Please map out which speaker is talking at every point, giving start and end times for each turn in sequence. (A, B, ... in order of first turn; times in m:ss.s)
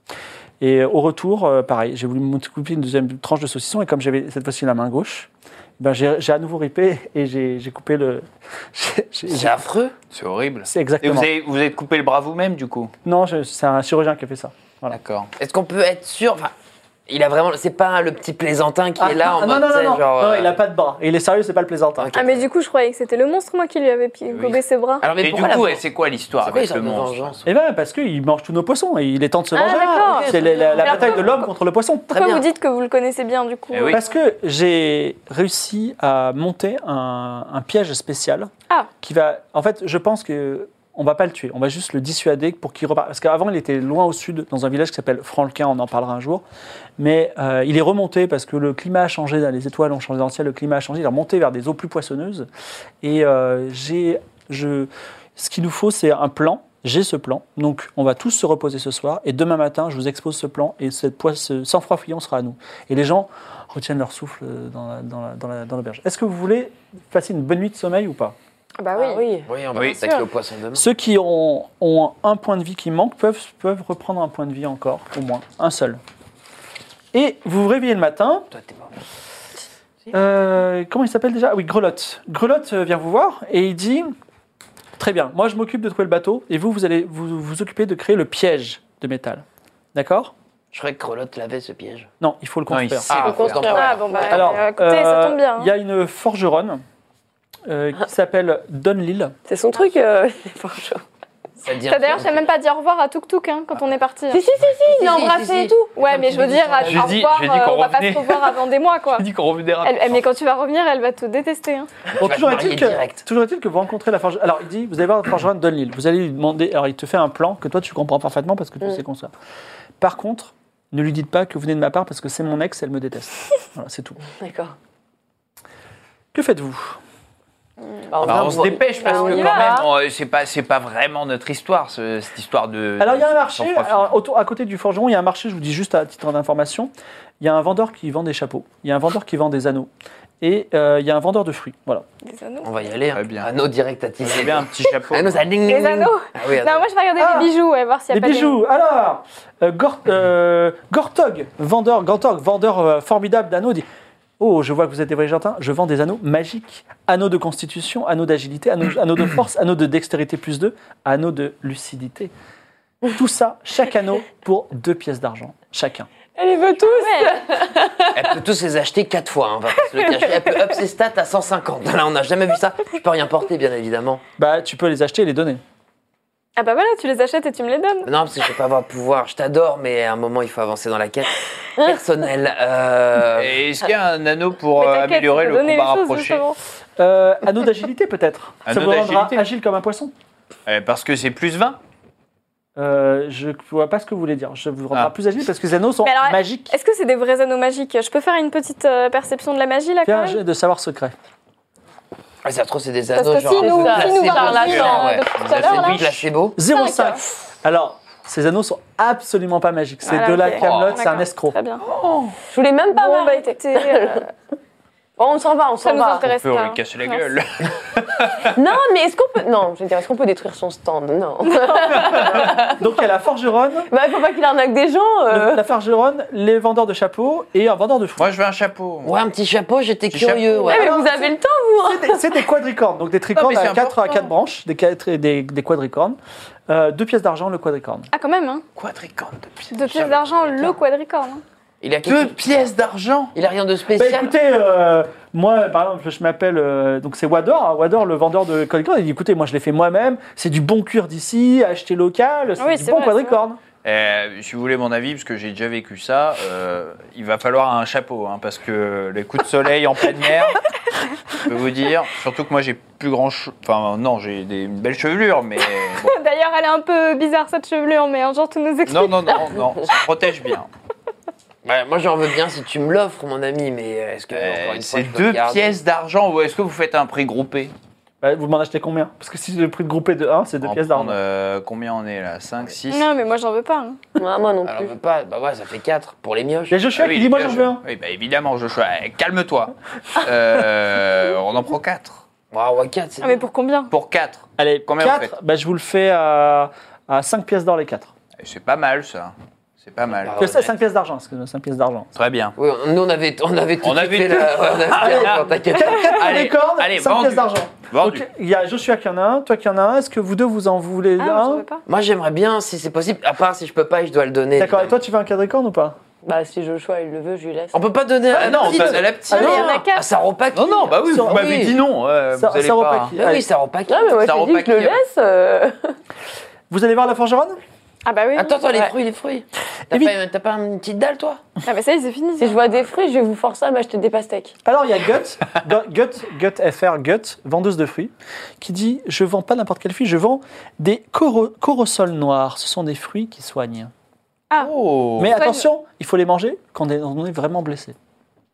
0:00.6-0:09.6 A
0:09.3-0:09.9 B
0:10.1-0:12.9 C
0:10.6-0:11.3 A
0:13.0-0:15.0 A
0:14.9-0:15.3 C
0:15.4-0:16.5 B
0:17.1-0:20.5 B
0:19.0-0:22.1 A
0:22.0-0:22.5 B
0:22.1-0:25.0 D
0:24.3-0:24.6 C
0:25.0-0:25.8 B
0:25.2-0:27.4 C
0:26.4-0:27.4 B
0:27.4-0:32.3 A
0:29.5-0:30.3 D
0:30.0-0:31.2 B
0:30.2-0:31.4 E
0:32.1-0:34.0 D
0:32.1-0:32.4 B
0:33.7-0:34.0 C
0:33.9-0:38.5 A
0:39.0-0:46.4 A
0:47.0-0:52.5 A
0:53.0-1:08.4 A
1:08.8-1:09.2 D
1:08.9-1:09.5 E
1:09.5-1:10.8 B
1:09.7-1:10.0 C
1:09.9-1:10.2 D
1:10.7-1:16.0 A
1:17.1-1:18.5 A
1:18.5-1:18.9 B
1:20.1-1:24.1 A
1:25.0-1:29.4 A
1:29.9-1:30.3 A
1:30.7-1:32.1 B
1:32.2-1:33.2 A
1:32.7-1:34.0 C
1:33.1-1:34.4 B
1:33.1-1:34.5 E
1:33.7-1:35.7 D
1:34.3-1:36.8 A
1:37.7-1:39.3 A
1:39.5-1:41.0 E
1:41.6-1:42.4 B
1:41.9-1:44.4 D
1:44.3-1:46.0 E
1:44.6-1:47.3 B
1:46.0-1:49.2 D
1:46.8-1:48.6 C
1:49.1-1:50.2 C
1:49.8-1:51.9 D
1:52.1-1:53.2 B
1:52.2-1:59.3 A
2:00.0-2:04.2 A
2:04.2-2:04.7 E
2:06.3-2:07.0 A
2:08.1-2:09.9 E
2:08.2-2:14.2 C
2:08.2-2:08.6 B
2:09.0-2:09.7 D
2:13.0-2:19.9 A
2:20.4-2:22.0 A
2:22.2-2:22.7 D
2:22.6-2:26.8 B
2:23.1-2:23.5 C
2:24.2-2:25.5 C
2:25.6-2:28.6 D
2:27.2-2:27.5 A
2:28.1-2:33.8 A
2:34.4-2:42.3 A
2:43.1-2:46.1 A
2:46.3-2:48.2 E
2:46.9-2:47.4 D
2:48.1-2:54.2 B
2:54.4-2:55.6 A
2:56.6-2:58.1 D
2:58.0-3:03.6 B
3:03.2-3:06.4 C
3:04.8-3:06.6 D
3:07.0-3:10.1 A
3:08.6-3:09.4 C
3:10.6-3:11.8 C
3:12.8-3:16.7 A
3:16.0-3:20.4 D
3:20.0-3:21.1 A
3:22.4-3:26.6 B
3:23.1-3:26.0 D
3:23.4-3:25.3 E
3:24.5-3:26.2 C
3:26.6-3:31.6 A
3:26.7-3:27.2 D
3:30.0-3:31.8 D
3:30.6-3:31.1 C
3:31.8-3:32.4 C
3:32.5-3:34.2 E
3:32.9-3:34.3 D
3:35.2-3:36.2 E
3:35.8-3:37.3 D
3:36.2-3:38.6 C
3:38.5-3:42.8 E
3:42.1-3:42.4 C
3:42.5-3:43.9 A
3:43.9-3:45.6 E
3:45.3-3:48.3 A
3:48.2-3:49.1 C
3:49.0-3:50.9 B
3:50.1-3:50.7 C
3:50.7-3:51.3 A
3:50.7-3:52.2 E
3:51.8-3:56.2 A
3:53.3-3:54.3 C
3:56.7-3:58.1 A
3:58.1-3:58.6 D
3:58.7-4:00.7 C
3:59.7-4:01.4 D
4:01.8-4:02.4 B
4:02.0-4:03.3 C
4:03.3-4:04.3 B
4:03.9-4:13.6 A
4:12.6-4:13.4 D
4:13.8-4:20.6 C
4:21.3-4:26.1 C
4:26.0-4:29.4 D
4:28.9-4:30.7 C
4:31.6-4:35.7 B
4:34.3-4:37.7 C
4:38.2-4:41.2 A
4:40.6-4:43.1 C
4:42.9-4:44.0 D
4:44.2-4:44.9 E
4:44.6-4:46.8 B
4:46.7-4:47.8 A
4:47.0-4:52.2 C
4:52.5-4:53.4 B
4:53.2-4:53.9 D
4:53.9-4:55.3 C
4:54.6-4:58.1 A
4:58.4-5:00.7 C
5:00.1-5:00.6 B
5:00.4-5:02.1 A
5:02.1-5:02.5 C
5:02.6-5:06.2 B
5:03.8-5:08.2 C
5:04.9-5:11.6 A
5:11.2-5:11.8 D
5:11.8-5:15.0 B
5:14.6-5:16.0 A
5:16.2-5:17.8 E
5:17.7-5:21.8 B
5:18.3-5:19.6 A
5:18.3-5:19.7 C
5:19.3-5:20.1 D
5:20.5-5:23.2 C
5:21.1-5:21.7 A
5:22.3-5:23.4 A
5:23.1-5:24.3 B
5:23.9-5:26.0 E
5:24.2-5:25.0 C
5:26.7-5:27.6 A
5:28.0-5:28.6 D
5:28.4-5:31.4 B
5:28.7-5:28.9 E
5:31.6-5:32.6 D
5:32.4-5:34.5 E
5:34.6-5:43.9 A
5:44.6-5:45.4 C
5:45.2-5:48.0 A
5:45.4-5:45.6 D